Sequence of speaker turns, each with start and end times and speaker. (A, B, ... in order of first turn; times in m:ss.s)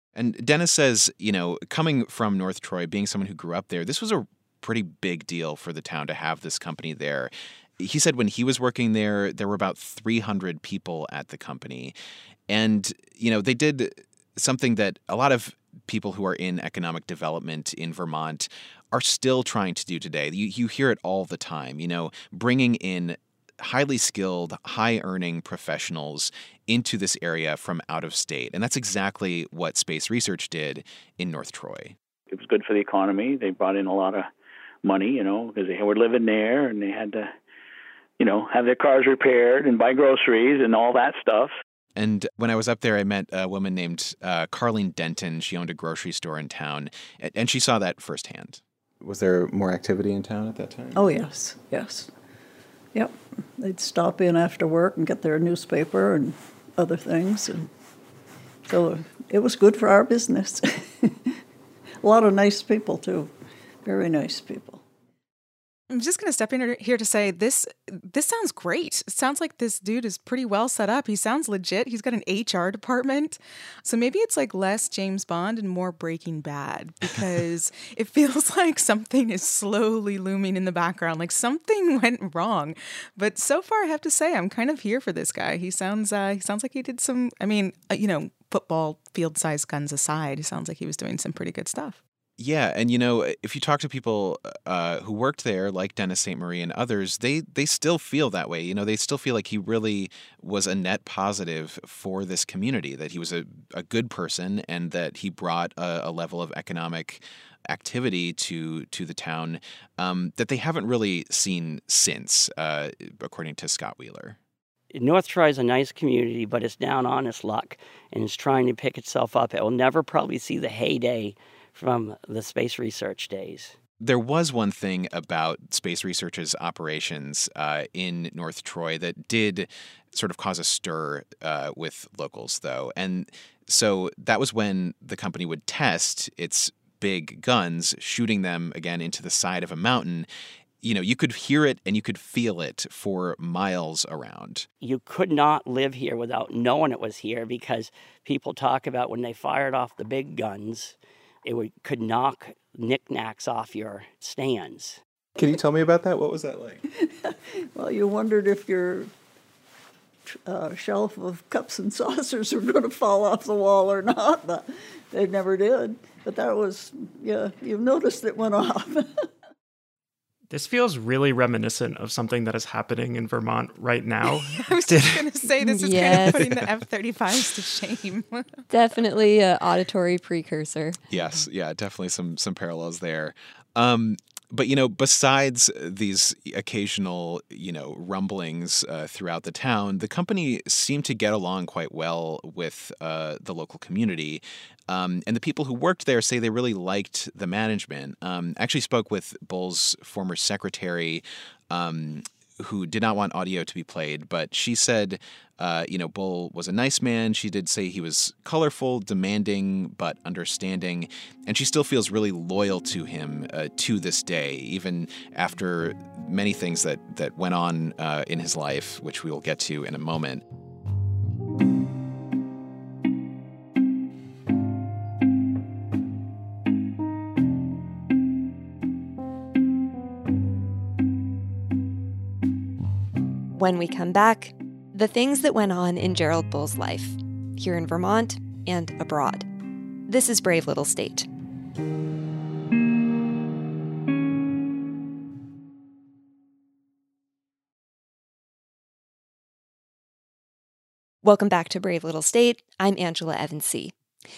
0:00.2-0:11.9 A
0:12.5-0:32.0 A
0:32.3-0:34.3 B
0:34.8-0:37.3 B
0:38.2-0:41.5 B
0:42.0-0:48.6 A
0:49.0-0:51.0 C
0:50.9-0:52.1 D
0:52.9-0:57.7 D
0:58.6-1:01.2 D
1:02.0-1:03.3 D
1:03.8-1:04.8 D
1:05.9-1:32.0 E
1:32.4-1:54.4 A
1:54.9-2:03.7 F
2:04.0-2:20.3 A
2:20.8-2:24.6 A
2:24.8-2:35.0 F
2:35.4-2:36.8 C
2:37.0-2:39.1 D
2:40.3-2:49.2 D
2:50.5-2:55.2 G
2:54.2-2:58.5 E
2:55.6-2:56.5 H
2:58.7-3:01.0 H
3:01.1-3:40.4 A
3:53.5-3:59.4 H
4:00.1-4:01.3 H
4:11.2-4:13.9 H